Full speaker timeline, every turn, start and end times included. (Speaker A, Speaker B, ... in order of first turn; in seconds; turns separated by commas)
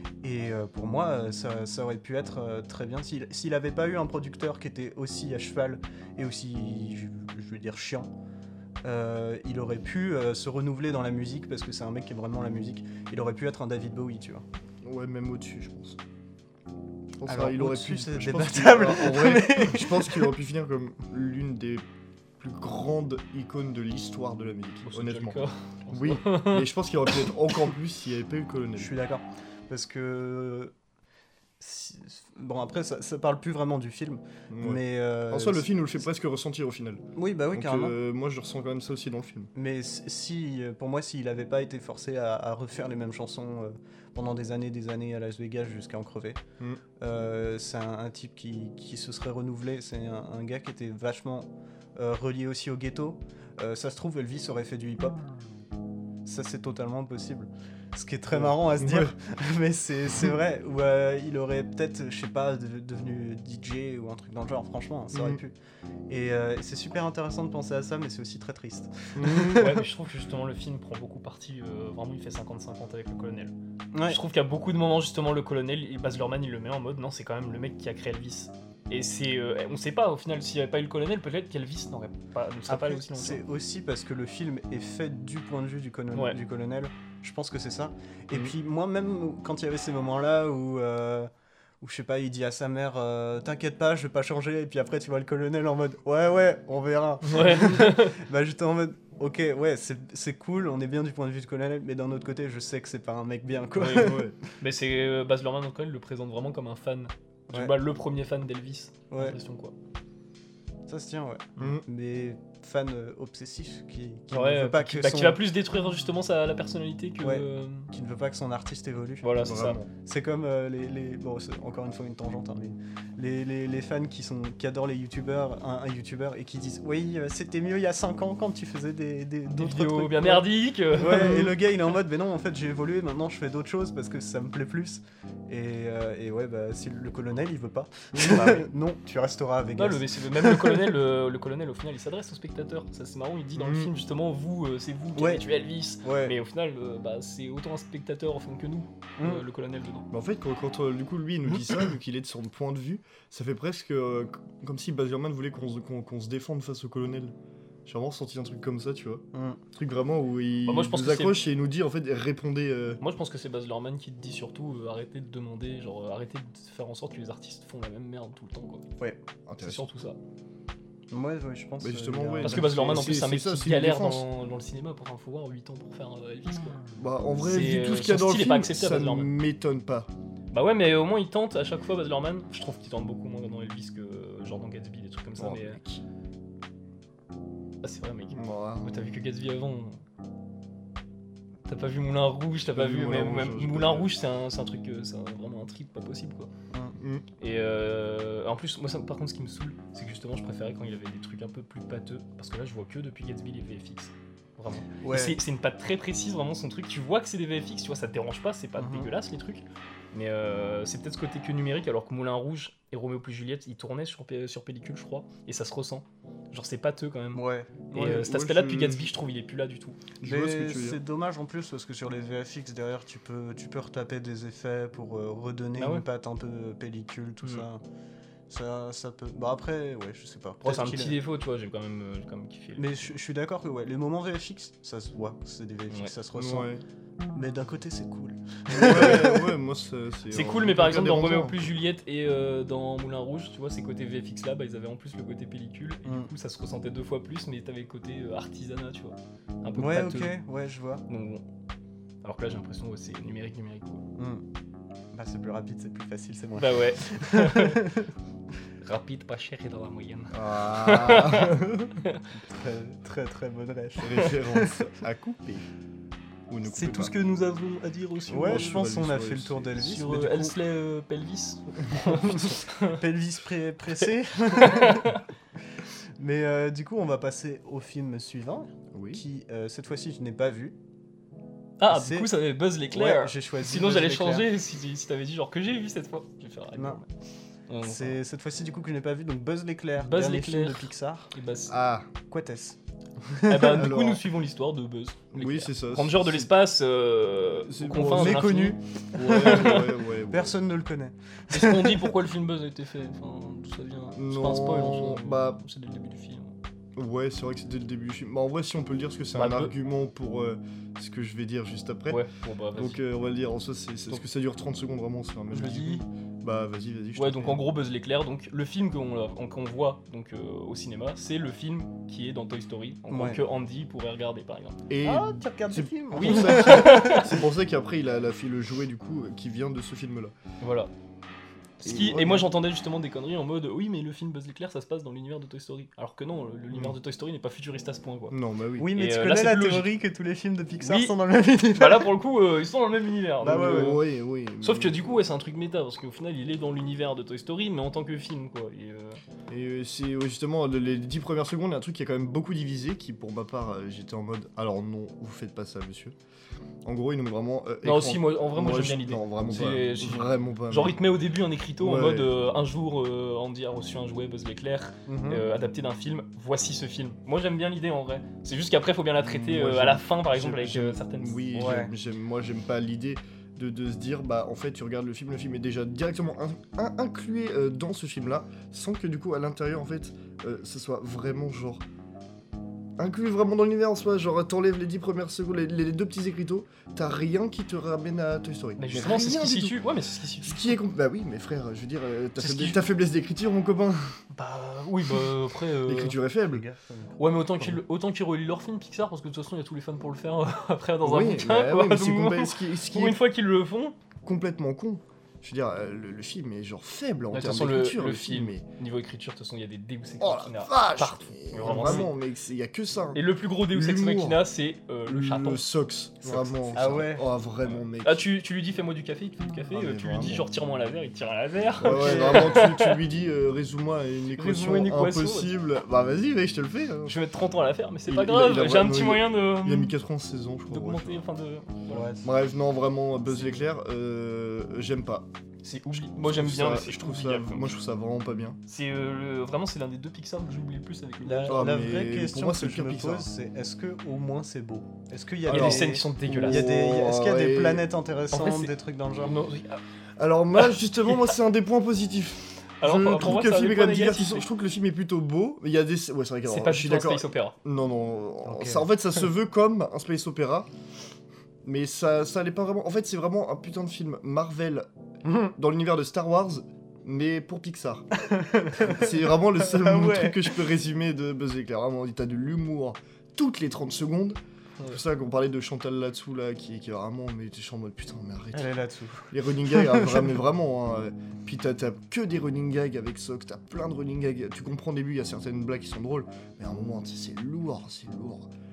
Speaker A: 0.2-8.1, Speaker A: 8.8-14.4, Speaker B: 14.8-16.0, Speaker B: 17.1-21.8, Speaker A: 17.3-20.3, Speaker B: 22.4-28.9, Speaker C: 24.9-26.7, Speaker A: 28.8-30.7, Speaker A: 31.6-35.8, Speaker B: 34.5-39.5, Speaker A: 37.1-38.0, Speaker A: 39.5-46.4, Speaker A: 47.0-55.2, Speaker A: 56.2-65.5, Speaker B: 58.3-59.1, Speaker B: 65.1-65.4, Speaker A: 66.1-69.8, Speaker B: 69.2-69.8, Speaker C: 69.5-73.5, Speaker A: 73.9-74.2, Speaker C: 74.1-83.4, Speaker A: 82.7-91.3, Speaker A: 91.8-104.3, Speaker C: 97.2-98.2, Speaker C: 103.8-109.7, Speaker B: 103.9-104.4, Speaker A: 107.5-107.8, Speaker A: 109.1-109.4, Speaker A: 110.9-115.4, Speaker B: 111.6-111.8, Speaker C: 114.3-117.9, Speaker A: 117.2-119.3, Speaker C: 119.2-119.8, Speaker B: 119.4-119.9, Speaker A: 120.0-140.9, Speaker C: 129.5-131.5, Speaker B: 138.2-138.5, Speaker C: 138.3-138.6, Speaker C: 139.8-150.1, Speaker B: 143.6-143.9, Speaker A: 145.2-145.4, Speaker A: 146.0-146.3, Speaker A: 149.2-149.4, Speaker B: 150.1-157.3, Speaker B: 157.8-163.0, Speaker A: 159.3-159.6, Speaker C: 160.6-161.5, Speaker C: 163.0-168.9, Speaker B: 169.5-169.8, Speaker C: 169.6-170.2, Speaker A: 171.1-173.1, Speaker B: 171.8-174.3, Speaker C: 172.4-176.8, Speaker B: 177.0-180.1, Speaker C: 177.4-179.3, Speaker C: 180.5-185.8, Speaker B: 185.4-186.0, Speaker C: 187.8-190.0, Speaker B: 188.3-189.1, Speaker C: 191.7-196.5, Speaker B: 192.7-194.1, Speaker A: 196.7-197.0, Speaker B: 197.0-197.2, Speaker C: 197.4-220.0, Speaker A: 204.8-205.4, Speaker A: 208.8-209.1, Speaker A: 217.3-217.8, Speaker B: 217.9-219.1, Speaker B: 220.2-221.0, Speaker A: 220.2-227.8, Speaker C: 225.8-226.1, Speaker A: 228.5-231.2, Speaker C: 230.6-233.2, Speaker A: 232.8-236.7, Speaker B: 236.3-236.8, Speaker A: 237.3-239.5, Speaker B: 238.7-241.7, Speaker C: 238.8-239.2, Speaker C: 240.3-250.3, Speaker A: 246.1-246.3, Speaker A: 249.8-251.0, Speaker C: 251.1-251.4, Speaker C: 252.2-254.1, Speaker A: 254.2-254.4, Speaker A: 255.1-258.1, Speaker C: 256.6-257.8, Speaker C: 258.8-262.2, Speaker B: 260.3-262.0, Speaker A: 262.3-264.9, Speaker B: 264.0-265.6, Speaker B: 266.5-267.1, Speaker C: 266.6-268.8, Speaker A: 268.3-270.6, Speaker B: 268.4-269.7, Speaker C: 269.8-273.0, Speaker A: 272.0-275.2, Speaker C: 274.5-275.2, Speaker A: 276.2-280.8, Speaker B: 278.9-279.2, Speaker C: 281.8-287.1, Speaker A: 281.9-282.3, Speaker A: 282.9-284.5, Speaker A: 286.8-287.0, Speaker C: 287.7-288.2, Speaker A: 287.8-291.3, Speaker C: 290.0-291.8, Speaker B: 291.7-292.1, Speaker A: 292.3-293.9, Speaker C: 293.5-299.9, Speaker B: 293.7-294.2, Speaker B: 295.3-296.5, Speaker B: 297.6-298.5, Speaker A: 298.1-302.1, Speaker B: 299.1-300.5, Speaker C: 301.5-306.6, Speaker B: 304.1-305.6, Speaker B: 306.9-312.2, Speaker C: 309.3-309.7, Speaker C: 312.1-313.0, Speaker B: 312.8-317.6, Speaker C: 315.5-316.1, Speaker C: 317.2-324.8, Speaker A: 323.1-323.4, Speaker B: 324.9-330.3, Speaker A: 325.0-327.3, Speaker C: 326.2-327.4, Speaker C: 330.6-330.9, Speaker B: 331.8-332.5, Speaker C: 331.8-338.4, Speaker B: 336.7-337.0, Speaker B: 338.3-338.9, Speaker A: 338.8-342.1, Speaker C: 338.9-339.9, Speaker C: 340.8-341.2, Speaker C: 341.7-344.0, Speaker A: 343.4-344.0, Speaker B: 343.4-345.0, Speaker C: 344.6-349.2, Speaker B: 349.5-356.2, Speaker B: 356.8-361.0, Speaker C: 357.8-371.5, Speaker B: 361.8-362.3, Speaker A: 365.1-365.4, Speaker B: 369.2-381.8, Speaker A: 371.5-371.9, Speaker B: 383.0-389.8, Speaker C: 388.8-390.8, Speaker B: 390.4-394.1, Speaker C: 392.4-392.8, Speaker C: 394.3-396.2, Speaker B: 395.8-396.6, Speaker A: 396.4-397.8, Speaker C: 397.2-403.9, Speaker B: 401.0-403.2, Speaker B: 404.2-408.6, Speaker C: 407.3-412.1, Speaker B: 410.2-414.5, Speaker A: 411.6-412.1, Speaker C: 413.1-415.6, Speaker B: 415.1-418.3, Speaker A: 416.2-417.3, Speaker C: 418.0-423.0, Speaker B: 419.7-420.4, Speaker B: 421.8-427.2, Speaker A: 421.8-422.6, Speaker C: 424.4-425.5, Speaker C: 427.1-429.9, Speaker B: 428.1-431.2, Speaker C: 430.7-432.1, Speaker A: 431.9-432.3, Speaker B: 432.2-435.3, Speaker C: 435.6-437.8, Speaker B: 436.2-438.6, Speaker C: 438.7-441.6, Speaker A: 441.2-449.4, Speaker B: 441.5-443.3, Speaker B: 445.4-447.9, Speaker C: 445.5-446.7, Speaker C: 448.3-449.8, Speaker B: 450.2-460.7, Speaker C: 450.6-451.3, Speaker C: 452.8-454.5, Speaker C: 456.4-457.6, Speaker A: 458.4-458.9, Speaker B: 461.6-464.9, Speaker A: 465.2-465.6, Speaker B: 465.6-468.1, Speaker A: 468.2-470.6, Speaker B: 468.8-478.7, Speaker A: 478.5-480.3, Speaker B: 479.3-488.5